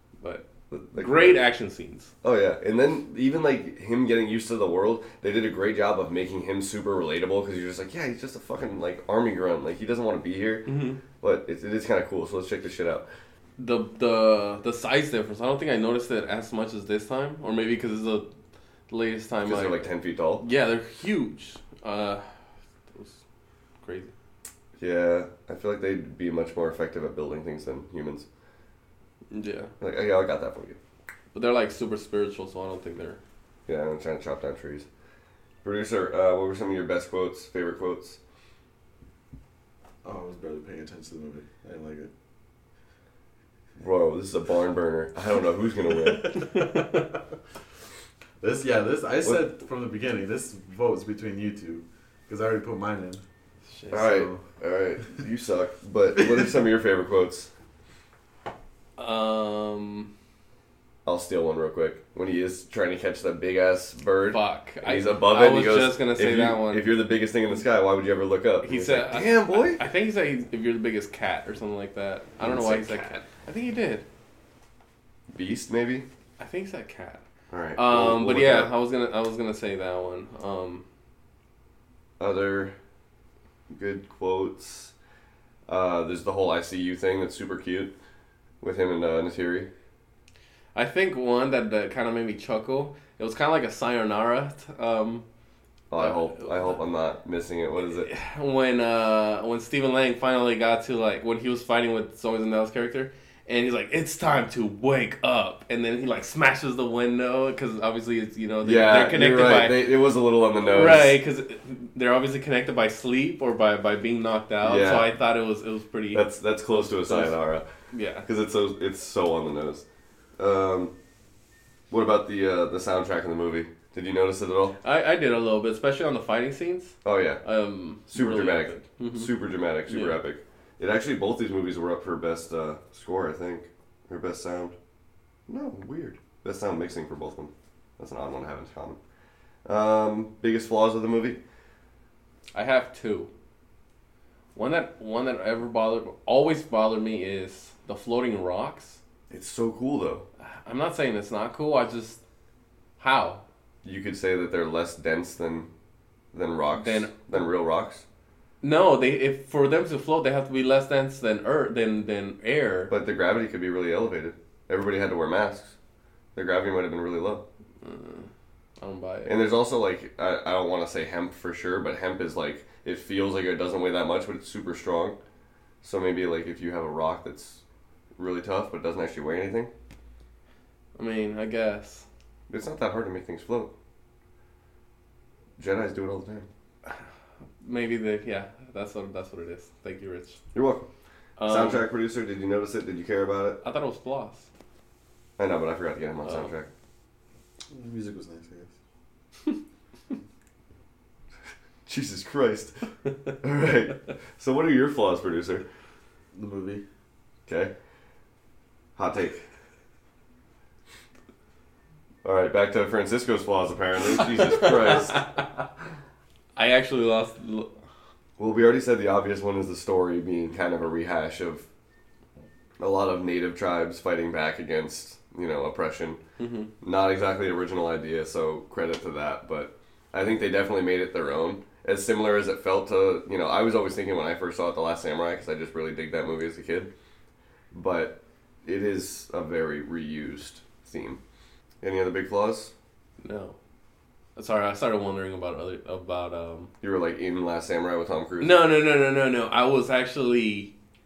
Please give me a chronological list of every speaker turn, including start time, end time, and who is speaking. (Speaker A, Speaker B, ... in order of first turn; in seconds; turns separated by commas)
Speaker A: 0.2-2.1, Speaker B: 0.7-1.4, Speaker B: 2.2-10.7, Speaker A: 10.7-11.0, Speaker B: 11.2-13.1, Speaker A: 13.6-18.3, Speaker A: 18.9-19.9, Speaker B: 19.4-20.5, Speaker A: 20.4-22.3, Speaker A: 22.9-23.2, Speaker A: 23.8-24.1, Speaker B: 24.8-28.3, Speaker A: 29.3-29.7, Speaker B: 29.8-30.8, Speaker A: 31.3-33.2, Speaker B: 33.7-34.9, Speaker B: 35.6-38.2, Speaker C: 40.0-42.1, Speaker B: 43.8-46.5, Speaker A: 46.3-47.1, Speaker C: 48.4-53.2, Speaker A: 53.7-54.3, Speaker B: 53.9-57.5, Speaker C: 54.0-54.4, Speaker A: 59.0-60.1, Speaker B: 61.0-69.8, Speaker A: 64.3-66.9, Speaker A: 68.6-74.0, Speaker B: 72.4-73.2, Speaker B: 75.3-76.1, Speaker A: 76.4-77.2, Speaker B: 77.5-78.7, Speaker A: 77.8-80.8, Speaker B: 82.2-82.8, Speaker B: 83.7-84.9, Speaker B: 85.7-87.9, Speaker B: 88.6-89.7, Speaker A: 90.8-95.2, Speaker B: 95.9-98.1, Speaker A: 96.0-96.8, Speaker A: 97.9-109.9, Speaker B: 108.6-111.2, Speaker A: 110.6-116.2, Speaker B: 114.6-115.1, Speaker B: 116.1-117.7, Speaker A: 116.8-117.3, Speaker A: 117.9-118.3, Speaker B: 118.3-119.8, Speaker B: 120.4-120.9, Speaker B: 121.9-124.8, Speaker A: 124.8-129.3, Speaker B: 127.0-127.4, Speaker B: 128.0-134.8, Speaker A: 129.9-130.2, Speaker B: 135.5-139.0, Speaker B: 139.7-141.4, Speaker A: 142.6-143.3, Speaker A: 144.6-149.0, Speaker B: 149.3-150.2, Speaker A: 150.4-152.2, Speaker A: 153.0-153.4, Speaker B: 153.8-155.7, Speaker B: 156.3-158.0, Speaker A: 156.8-157.2, Speaker A: 158.6-162.9, Speaker B: 162.9-165.8, Speaker B: 166.3-167.4, Speaker A: 167.8-169.4, Speaker B: 169.3-175.2, Speaker B: 175.8-177.6, Speaker B: 178.2-179.7, Speaker A: 181.0-182.1, Speaker B: 182.5-183.7, Speaker B: 185.6-186.5, Speaker A: 187.6-190.4, Speaker B: 190.5-190.9, Speaker A: 191.4-191.8, Speaker B: 191.4-193.6, Speaker A: 193.6-194.5, Speaker B: 195.4-196.7, Speaker A: 196.2-196.5, Speaker C: 197.7-198.7, Speaker B: 201.9-202.8, Speaker B: 203.4-205.6, Speaker C: 206.3-206.8, Speaker B: 207.5-207.7, Speaker B: 209.0-209.4, Speaker B: 212.2-215.3, Speaker A: 214.9-215.4, Speaker A: 216.6-217.8, Speaker B: 218.4-221.7, Speaker B: 222.8-226.2, Speaker A: 226.4-226.7, Speaker B: 226.8-236.9, Speaker B: 237.7-241.2, Speaker B: 241.8-242.7, Speaker A: 243.2-243.6, Speaker A: 244.4-246.7, Speaker B: 246.8-248.6, Speaker A: 248.4-250.7